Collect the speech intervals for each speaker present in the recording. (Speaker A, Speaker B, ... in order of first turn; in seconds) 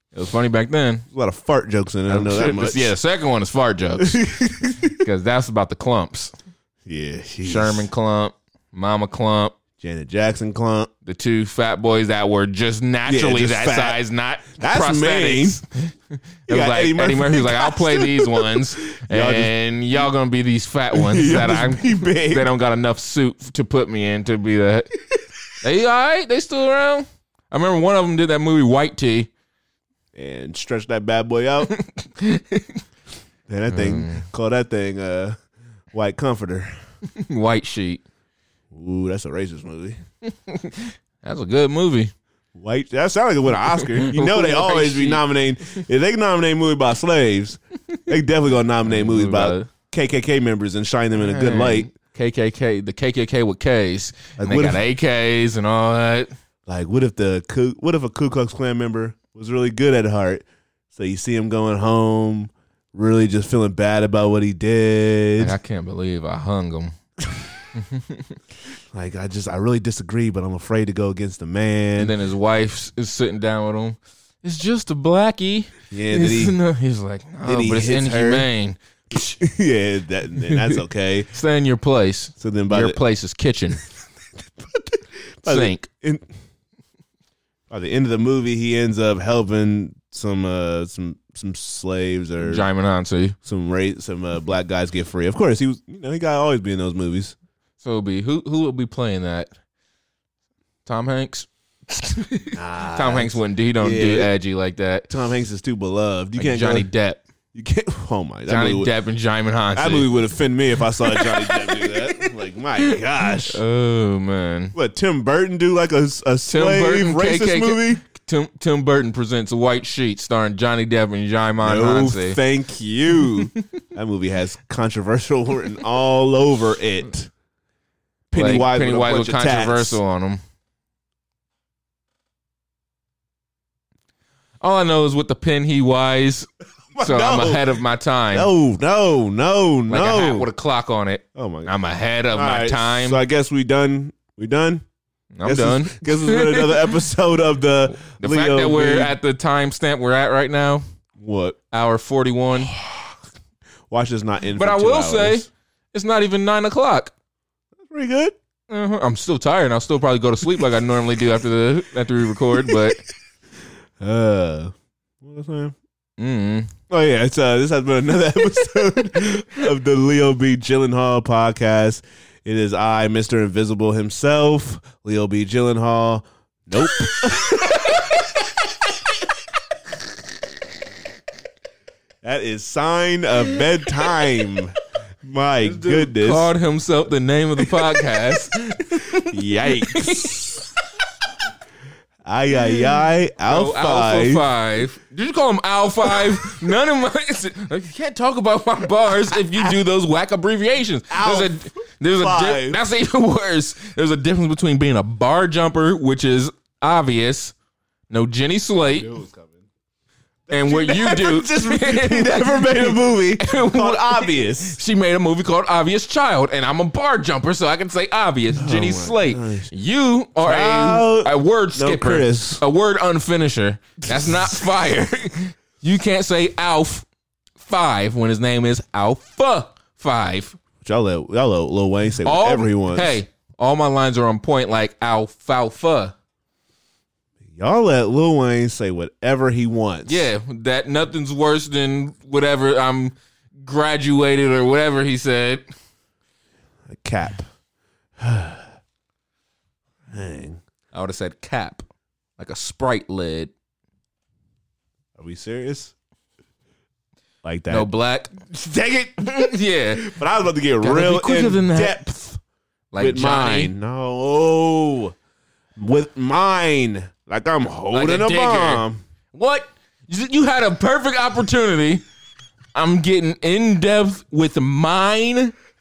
Speaker A: 0.1-1.1, 2.1-4.2, 5.0-6.3, 7.4-9.6, 11.1-24.9, 25.6-29.3, 31.8-32.8, 33.7-34.2, 37.1-38.0, 40.5-42.1, 43.9-45.2, 48.8-49.7, 51.2-56.3, 65.4-66.9, 67.7-68.3, 72.0-78.8, 81.3-83.8, 85.5-85.9, 92.4-93.3, 97.8-99.5, 100.8-105.1, 106.4-107.2, 108.5-110.1, 111.0-112.3, 113.5-114.7, 116.5-122.4, 128.3-130.4, 134.6-136.5, 137.0-138.5, 139.9-143.2, 145.3-146.9, 147.9-150.8, 151.7-152.7, 154.6-157.1, 158.7-163.0, 166.2-166.7, 185.6-190.7, 192.6-207.5, 208.1-209.1, 210.5-227.1, 227.6-230.6, 232.2-236.1, 240.1-245.6, 250.9-251.8, 252.4-253.5, 257.7-258.3, 259.2-260.1, 260.8-262.0, 262.9-263.7, 267.9-272.0, 272.7-275.5
Speaker B: 1.1-3.0, 4.0-5.0, 6.8-7.9, 9.8-10.9, 13.1-15.6, 16.5-19.5, 20.9-22.5, 30.1-31.7, 33.5-35.4, 35.9-36.7, 38.7-40.0, 42.5-51.9, 54.4-54.8, 56.6-65.5, 68.9-72.1, 75.9-76.5, 77.4-78.5, 79.1-81.3, 82.4-83.0, 84.6-86.2, 87.7-92.7, 93.4-97.3, 102.5-104.3, 105.1-106.9, 107.5-108.9, 109.7-113.6, 114.7-118.0, 121.6-127.3, 128.3-130.0, 136.9-137.8, 138.3-140.5, 141.3-141.7, 142.3-144.8, 145.4-149.2, 151.2-151.6, 152.6-153.1, 153.9-155.5, 157.8-158.3, 162.6-163.0, 164.0-165.8, 166.9-177.9, 182.2-186.5, 187.6-188.0, 189.2-190.6, 192.2-194.5, 199.5-199.8, 201.1-202.8, 208.8-209.7, 210.5-214.8, 218.5-219.7, 220.4-222.6, 224.1-224.6, 230.8-233.1, 237.5-240.3, 246.9-247.5, 248.2-248.7, 250.1-250.6, 255.2-255.9, 257.4-257.9, 258.4-262.4, 263.0-265.1, 265.8-269.0